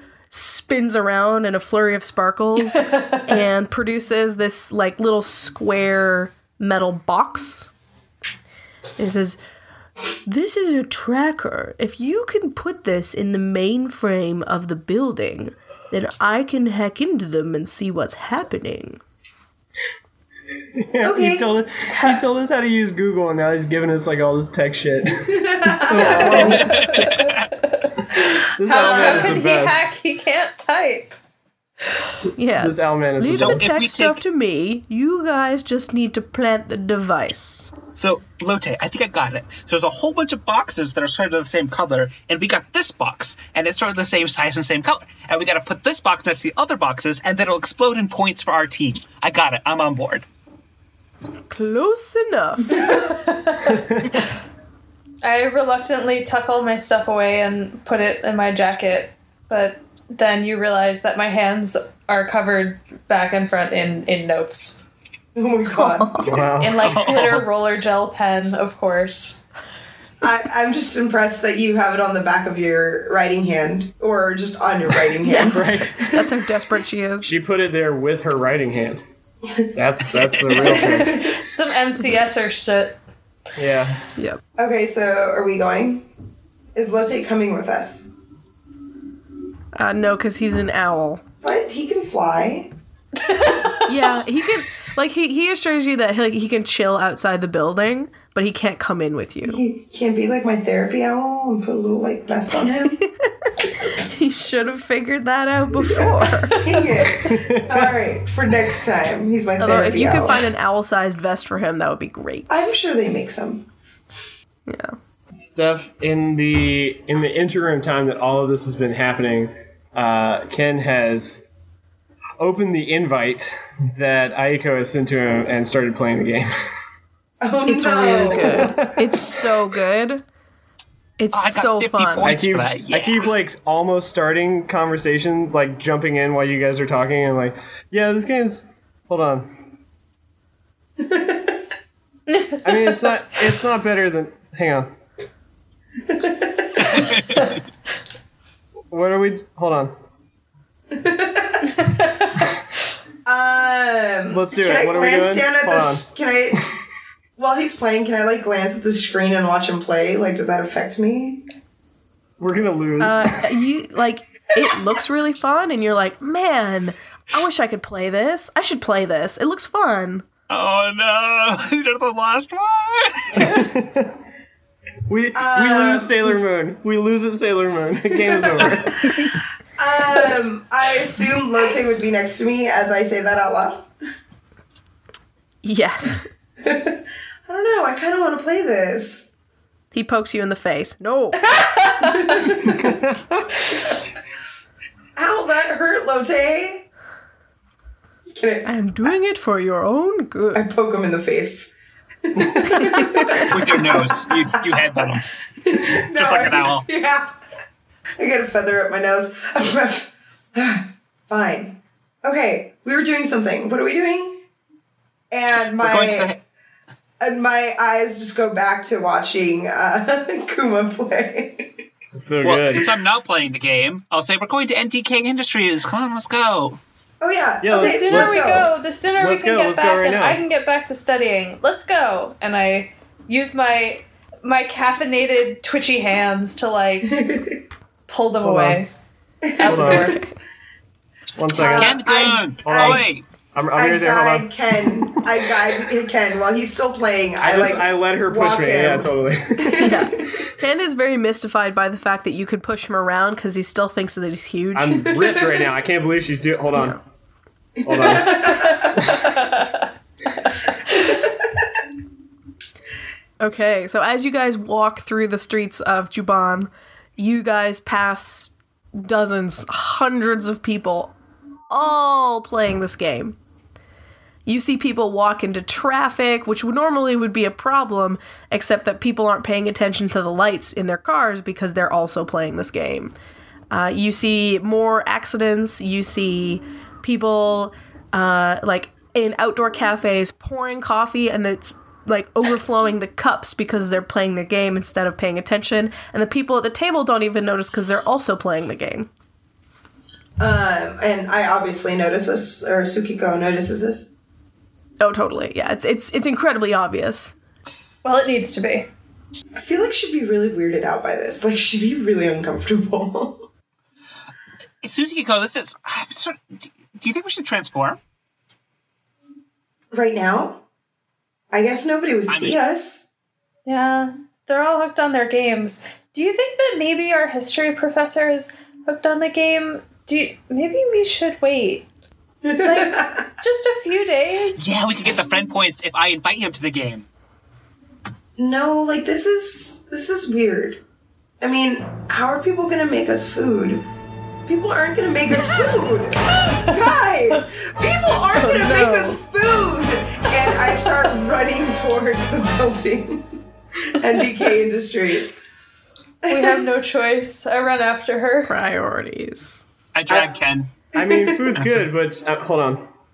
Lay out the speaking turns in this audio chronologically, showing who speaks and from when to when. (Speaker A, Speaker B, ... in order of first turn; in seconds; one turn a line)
Speaker A: 0.3-7.7
Speaker A: 9.0-9.4
Speaker A: 10.2-19.0
Speaker B: 20.8-26.8
Speaker C: 21.0-21.6
Speaker D: 21.9-22.2
Speaker C: 25.3-26.5
Speaker A: 25.8-26.9
Speaker D: 26.0-31.2
Speaker E: 26.4-27.5
Speaker B: 28.6-29.9
Speaker C: 28.6-29.4
Speaker A: 32.4-37.7
Speaker B: 32.6-33.7
Speaker E: 33.3-34.2
Speaker E: 38.0-50.2
Speaker A: 51.5-53.0
Speaker D: 52.9-53.9
Speaker D: 55.2-64.8
Speaker C: 65.3-66.4
Speaker A: 65.7-66.4
Speaker B: 66.2-66.9
Speaker D: 66.6-69.4
Speaker E: 66.8-67.5
Speaker C: 70.2-76.3
Speaker A: 75.2-77.4
Speaker B: 75.5-76.0
Speaker B: 77.2-79.0
Speaker B: 79.8-81.3
Speaker C: 80.5-81.3
Speaker D: 80.9-83.0
Speaker B: 83.6-84.0
Speaker A: 84.2-84.4
Speaker C: 84.6-86.1
Speaker C: 86.8-88.1
Speaker A: 89.8-91.2
Speaker C: 91.4-92.7
Speaker D: 93.2-93.9
Speaker A: 93.9-99.6
Speaker C: 99.4-103.0
Speaker A: 102.5-106.7
Speaker C: 106.4-110.4
Speaker B: 107.2-107.9
Speaker A: 109.6-112.7
Speaker C: 112.5-113.7
Speaker A: 114.7-115.0
Speaker B: 115.3-121.4
Speaker B: 122.4-126.5
Speaker C: 127.4-128.9
Speaker A: 127.7-130.2
Speaker B: 128.3-129.1
Speaker A: 131.2-132.3
Speaker E: 131.3-133.3
Speaker B: 132.2-139.5
Speaker C: 141.0-141.6
Speaker D: 142.3-143.1
Speaker B: 142.6-144.9
Speaker C: 146.1-147.1
Speaker E: 147.0-147.5
Speaker B: 148.9-149.9
Speaker C: 150.9-152.2
Speaker C: 153.3-156.7
Speaker B: 154.3-156.1
Speaker C: 157.4-161.4
Speaker B: 162.4-163.2
Speaker A: 163.0-170.2
Speaker E: 170.5-173.6
Speaker B: 173.3-174.2
Speaker B: 175.1-179.1
Speaker C: 175.3-176.3
Speaker C: 178.1-183.9
Speaker A: 185.6-186.3
Speaker C: 186.6-189.3
Speaker A: 189.9-191.4
Speaker D: 191.6-192.4
Speaker C: 192.0-193.0
Speaker B: 192.7-193.4
Speaker C: 195.2-196.8
Speaker C: 198.3-198.7
Speaker A: 198.7-200.7
Speaker C: 200.5-201.7
Speaker C: 202.2-205.0
Speaker A: 202.8-203.2
Speaker E: 203.4-205.3
Speaker C: 205.6-207.3
Speaker E: 206.1-206.9
Speaker C: 208.2-214.4
Speaker C: 215.3-216.4
Speaker E: 215.8-216.4
Speaker C: 217.2-221.7
Speaker B: 222.2-222.9
Speaker E: 222.4-226.8
Speaker C: 227.2-228.7
Speaker B: 227.6-228.5
Speaker D: 227.7-237.2
Speaker B: 229.2-230.4
Speaker C: 237.0-237.6
Speaker D: 238.1-238.9
Speaker B: 238.4-238.8
Speaker C: 239.4-240.1
Speaker D: 239.6-240.2
Speaker B: 239.7-240.1
Speaker A: 239.9-240.3
Speaker B: 241.4-242.0
Speaker C: 241.5-243.1
Speaker E: 241.7-243.2
Speaker B: 242.6-245.2
Speaker C: 243.7-250.3
Speaker B: 247.4-250.0
Speaker A: 249.8-255.1
Speaker B: 254.8-257.0
Speaker C: 255.0-255.7
Speaker A: 256.7-257.0
Speaker C: 257.8-259.2
Speaker B: 257.9-259.3
Speaker D: 259.4-259.8
Speaker C: 260.9-261.5
Speaker A: 263.4-271.1
Speaker A: 271.7-273.4
Speaker A: 274.5-283.1
Speaker A: 283.7-299.1
Speaker C: 300.4-304.1
Speaker A: 305.0-307.4
Speaker D: 308.0-308.9
Speaker C: 309.6-313.4
Speaker E: 314.8-318.0
Speaker C: 319.9-320.6
Speaker C: 321.5-323.1
Speaker E: 322.3-322.6
Speaker D: 323.7-331.9
Speaker C: 332.4-333.3
Speaker D: 332.6-334.7
Speaker E: 334.6-337.1
Speaker C: 338.4-340.8
Speaker C: 341.4-343.9
Speaker C: 344.5-353.3
Speaker A: 348.4-349.2
Speaker C: 353.9-355.4
Speaker C: 356.2-356.6
Speaker D: 356.3-358.6
Speaker A: 358.4-359.6
Speaker E: 359.9-360.7
Speaker C: 360.9-361.6
Speaker B: 360.9-362.8
Speaker E: 361.6-361.9